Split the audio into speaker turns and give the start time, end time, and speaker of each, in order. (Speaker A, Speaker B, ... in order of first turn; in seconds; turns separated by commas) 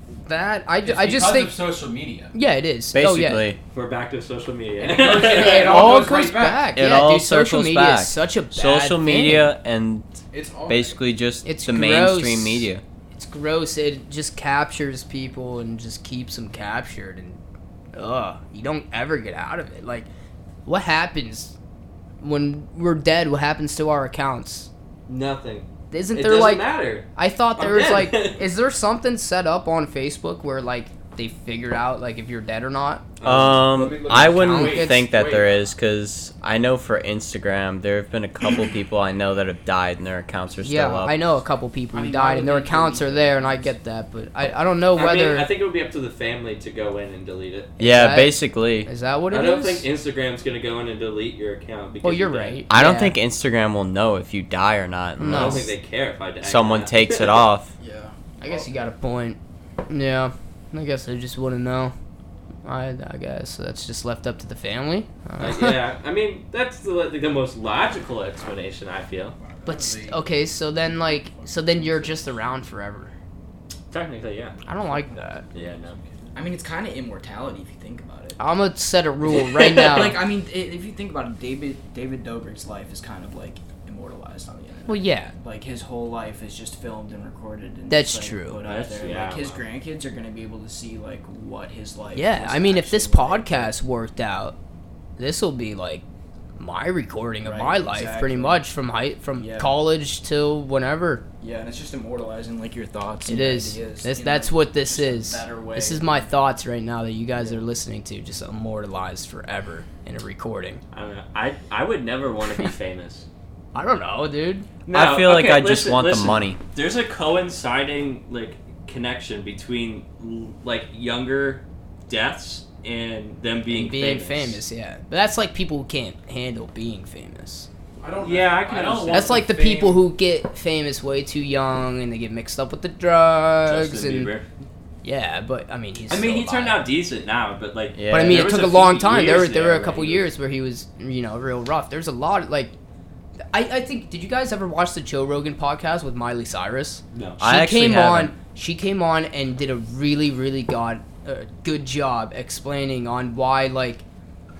Speaker A: 0.2-1.6, Speaker B: 0.8-2.3, Speaker A: 2.3-3.5, Speaker C: 2.9-3.6, Speaker D: 3.7-6.1, Speaker B: 4.8-6.7, Speaker A: 5.3-9.5, Speaker C: 6.8-12.8, Speaker B: 10.3-11.0, Speaker A: 11.4-17.4, Speaker A: 17.9-20.1, Speaker A: 20.6-21.5, Speaker A: 22.2-24.7, Speaker D: 25.1-28.4, Speaker A: 25.9-33.0, Speaker D: 33.2-33.8, Speaker C: 33.2-41.1, Speaker B: 33.7-35.7, Speaker A: 34.1-35.1, Speaker A: 40.6-45.5, Speaker E: 41.9-43.7, Speaker D: 45.0-47.7, Speaker A: 47.8-49.9, Speaker C: 47.8-48.9, Speaker D: 49.3-52.6, Speaker A: 52.0-53.2, Speaker C: 52.7-55.7, Speaker A: 55.2-55.7, Speaker D: 55.2-57.4, Speaker C: 56.4-57.7, Speaker E: 57.8-58.7, Speaker A: 58.4-59.4, Speaker A: 59.9-61.9, Speaker A: 62.6-65.8, Speaker D: 65.4-69.3, Speaker E: 69.4-70.1, Speaker A: 69.6-73.1, Speaker B: 69.7-70.2, Speaker E: 71.4-72.1, Speaker D: 73.9-74.6, Speaker A: 74.7-75.5, Speaker D: 75.5-76.0, Speaker E: 76.3-78.4, Speaker A: 78.4-80.2, Speaker D: 79.4-80.1, Speaker E: 79.7-93.7, Speaker A: 84.9-85.3, Speaker A: 87.9-88.6, Speaker D: 88.6-89.6, Speaker A: 92.1-94.5, Speaker A: 95.2-96.0, Speaker A: 96.6-101.2, Speaker E: 97.4-98.6, Speaker E: 99.3-99.8, Speaker E: 101.4-106.3, Speaker A: 103.3-110.8, Speaker E: 107.3-107.7, Speaker D: 110.9-113.3, Speaker A: 113.7-114.7, Speaker D: 114.9-124.6, Speaker C: 114.9-116.6, Speaker A: 123.7-127.7, Speaker B: 128.0-130.0, Speaker D: 128.2-129.4, Speaker A: 129.1-134.3, Speaker D: 133.7-134.4, Speaker A: 135.0-136.9, Speaker D: 136.1-140.3, Speaker C: 137.9-138.5, Speaker A: 138.1-142.7, Speaker A: 143.5-154.0, Speaker D: 147.1-147.4, Speaker C: 147.4-148.3